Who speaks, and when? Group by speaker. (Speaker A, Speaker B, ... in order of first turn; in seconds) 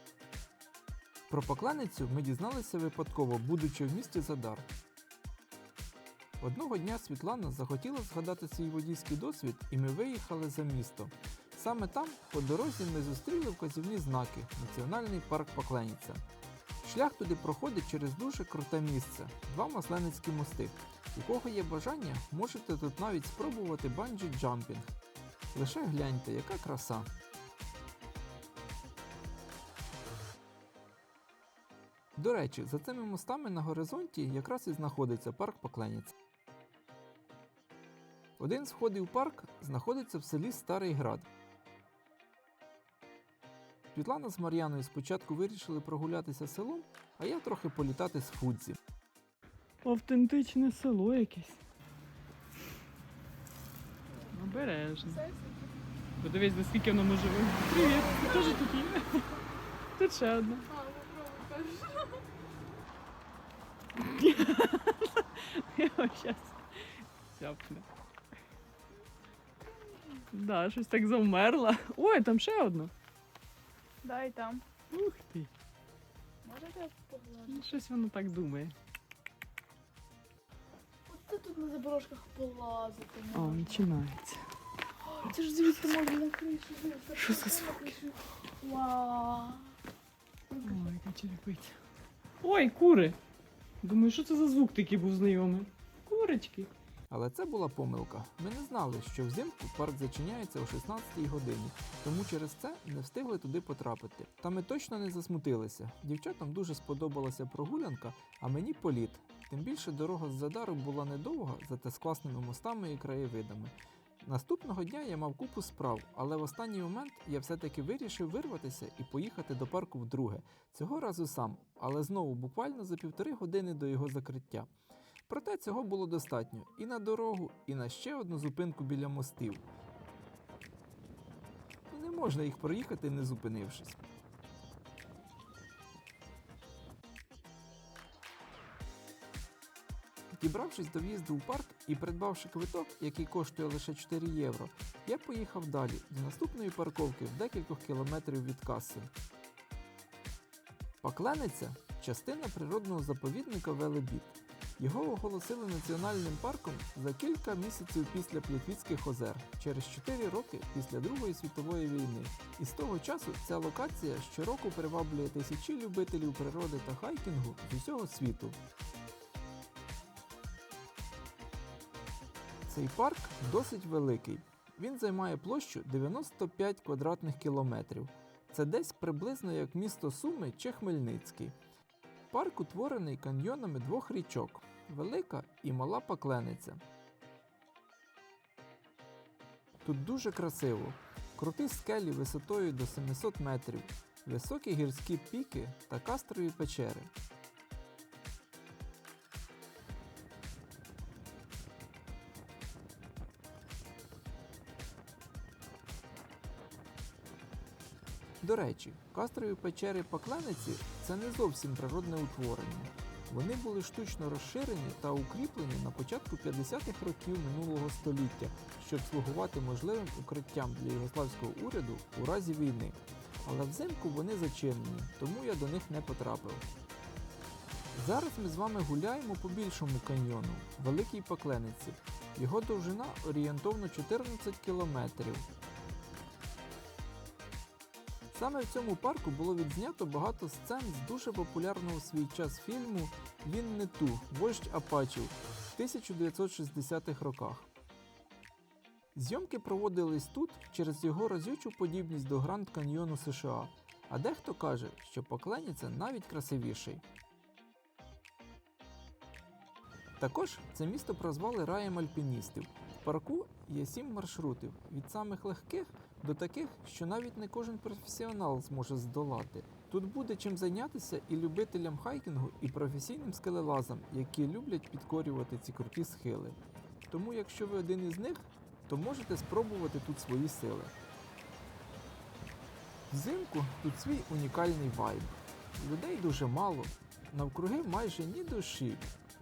Speaker A: 1.3-4.7, 6.4-16.2, 16.8-24.9, 25.5-27.1, 32.2-36.1, 38.4-41.3, 43.9-48.8, 97.1-124.7, 125.3-129.6, 131.9-134.0, 140.3-149.1, 151.0-168.6, 172.7-181.6, 182.3-186.8, 189.8-197.1, 208.4-226.7, 227.9-235.5, 238.3-247.7, 249.2-257.0, 260.2-276.6, 277.1-280.9, 283.1-289.1
Speaker B: 49.8-51.6, 54.3-55.3, 56.2-59.4, 60.0-60.7, 64.0-67.9, 70.3-72.9, 74.9-75.5, 77.5-78.8, 83.3-84.5, 85.3-86.0, 87.2-88.0, 90.6-91.8, 92.4-93.2, 93.8-96.7
Speaker C: 55.4-55.7, 60.8-62.2, 74.0-74.6, 76.4-77.6, 81.1-83.6, 85.6-89.7